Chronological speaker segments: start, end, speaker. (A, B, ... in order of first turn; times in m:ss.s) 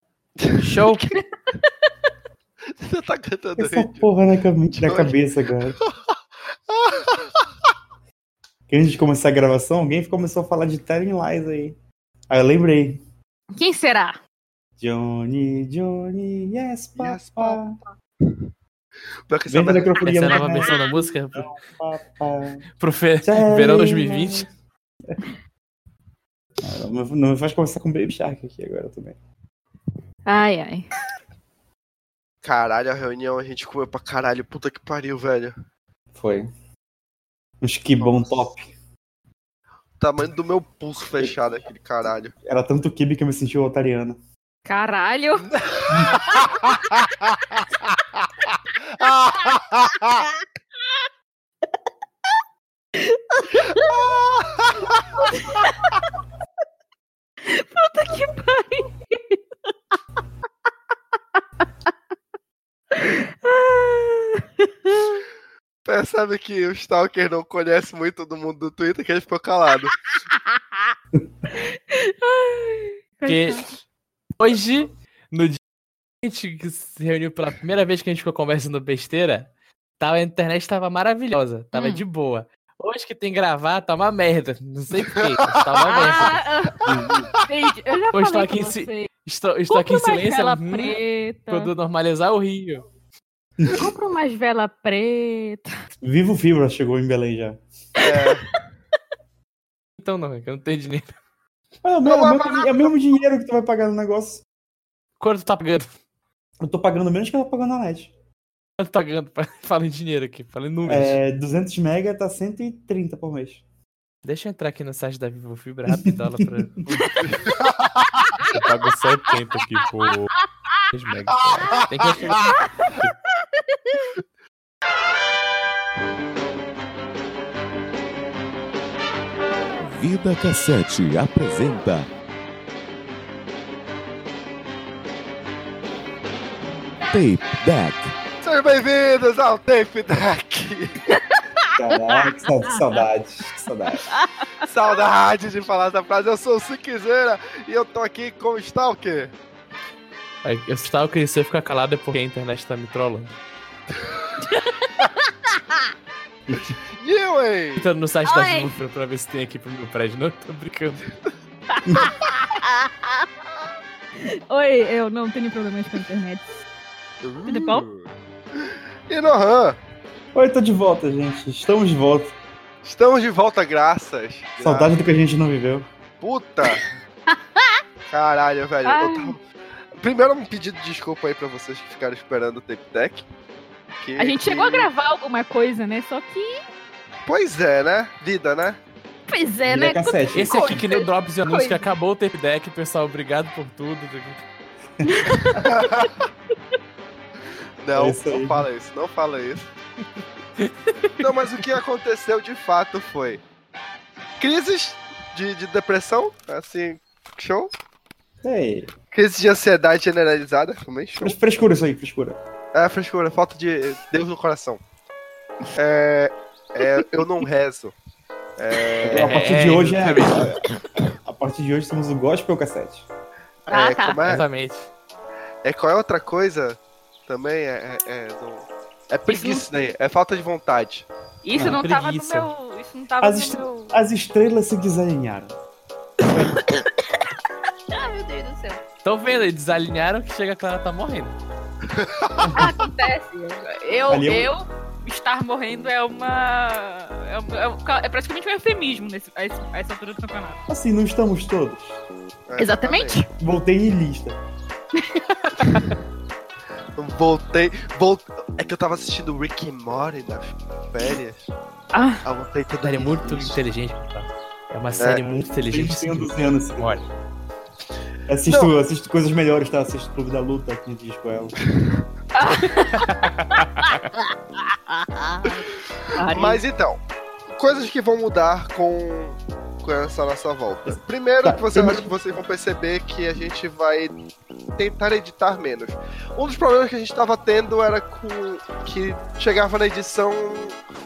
0:00.4-0:01.1 A
0:00.6-0:01.0 B
0:02.8-0:04.1 A
0:03.6-0:05.8 C
0:04.8-0:05.1 A
0:06.7-0:07.4 A
0:08.7-0:11.8 C
0:12.3-0:13.0 C
0:13.5-0:14.2 D
0:14.8-0:17.8 C
0:17.0-0:17.8 A
0:19.3-0:20.7 A
0:19.5-0:22.6 C
0:20.0-0:21.5 B
0:22.8-0:24.5 B
0:23.2-0:24.4 C
0:26.6-0:29.2 C
0:30.3-0:30.9 D
0:32.4-0:35.5 A
0:36.1-0:36.5 C
0:37.6-0:38.7 C
0:38.0-0:38.4 A
0:40.0-0:42.3 A
0:42.4-0:44.2 C
0:44.6-0:45.5 D
0:45.6-0:46.4 A
0:45.9-0:46.2 C
0:53.0-0:54.0 D
0:55.2-0:55.9 D
0:57.4-0:59.4 D
1:02.9-1:05.2 D
1:05.8-1:09.9 A
1:11.5-1:13.6 D
1:13.2-1:13.7 B
1:14.4-1:15.6 B
1:16.2-1:26.4 B
1:21.7-1:22.0 D
1:25.0-1:25.5 A
1:25.8-1:26.8 D
1:26.8-1:27.3 C
1:27.4-1:29.1 D
1:28.1-1:32.9 B
1:29.7-1:31.7 D
1:33.6-1:33.8 C
1:33.7-1:35.7 D
1:36.0-1:37.6 C
1:38.0-1:38.5 A
1:40.0-1:41.1 B
1:41.8-1:44.4 C
1:42.0-1:42.9 A
1:45.2-1:45.9 B
1:46.6-1:48.1 C
1:48.8-1:51.2 B
1:50.8-1:53.6 C
1:54.2-1:57.4 B
1:55.9-1:56.8 C
1:57.0-1:57.2 D
1:58.4-2:00.4 B
2:00.9-2:03.1 B
2:02.5-2:02.9 D
2:09.8-2:12.1 E
2:17.1-2:18.1 E
2:18.4-2:21.0 A
2:21.1-2:23.0 D
2:21.7-2:24.1 C
2:24.0-2:24.4 D
2:24.6-2:29.3 A
2:30.4-2:33.3 B
2:34.4-2:35.8 D
2:36.5-2:36.7 C
2:36.9-2:37.9 A
2:37.8-2:41.0 B
2:38.2-2:38.7 D
2:41.7-2:43.2 D
2:44.2-2:46.6 D
2:47.2-2:49.8 A
2:47.4-2:47.8 D
2:50.3-2:52.4 C
2:52.8-2:54.9 A
2:54.6-2:55.9 C
2:56.2-2:56.8 A
2:57.3-2:57.8 D
2:58.1-2:59.4 A
2:58.8-2:59.4 D
3:00.0-3:03.2 A
3:04.0-3:04.9 A
3:04.2-3:06.6 D
3:07.2-3:08.8 A
3:09.3-3:11.8 D
3:09.7-3:10.8 C
3:10.3-3:14.4 B
3:15.0-3:15.6 C
3:15.1-3:15.4 D
3:15.4-3:16.2 A
3:17.8-3:19.7 A
3:17.9-3:18.6 C
3:20.6-3:21.3 B
3:21.2-3:23.4 A
3:24.4-3:27.7 A
3:28.4-3:28.9 C
3:29.1-3:31.3 A
3:31.2-3:32.4 C
3:32.7-3:34.8 A
3:35.7-3:37.9 A
3:38.6-3:39.5 A
3:39.0-3:43.0 C
3:39.1-3:40.6 B
3:43.7-3:44.4 A
3:43.7-3:44.2 D
3:44.2-3:44.9 B
3:45.6-3:51.1 A
3:49.3-3:49.6 D
3:51.4-3:53.9 D
3:51.5-3:52.5 C
3:53.2-3:55.5 C
3:56.3-3:56.9 D
3:56.3-3:56.6 C
3:57.9-3:58.8 D
3:59.0-4:01.3 B
4:01.9-4:02.7 A
4:02.4-4:02.7 C
4:02.5-4:10.6 D
4:04.1-4:04.5 C
4:10.7-4:12.0 C
4:12.5-4:13.2 A
4:12.6-4:13.3 D
4:13.4-4:14.4 C
4:15.0-4:15.8 D
4:17.0-4:21.5 A
4:21.9-4:22.2 D
4:22.2-4:23.6 A
4:22.8-4:27.0 B
4:25.0-4:25.2 A
4:25.3-4:27.0 C
4:28.3-4:31.6 C
4:32.3-4:33.9 D
4:32.7-4:34.0 B
4:34.9-4:35.6 D
4:36.1-4:36.6 D
4:36.3-4:37.0 A
4:37.5-4:44.2 A
4:40.8-4:42.1 C
4:44.8-4:50.8 A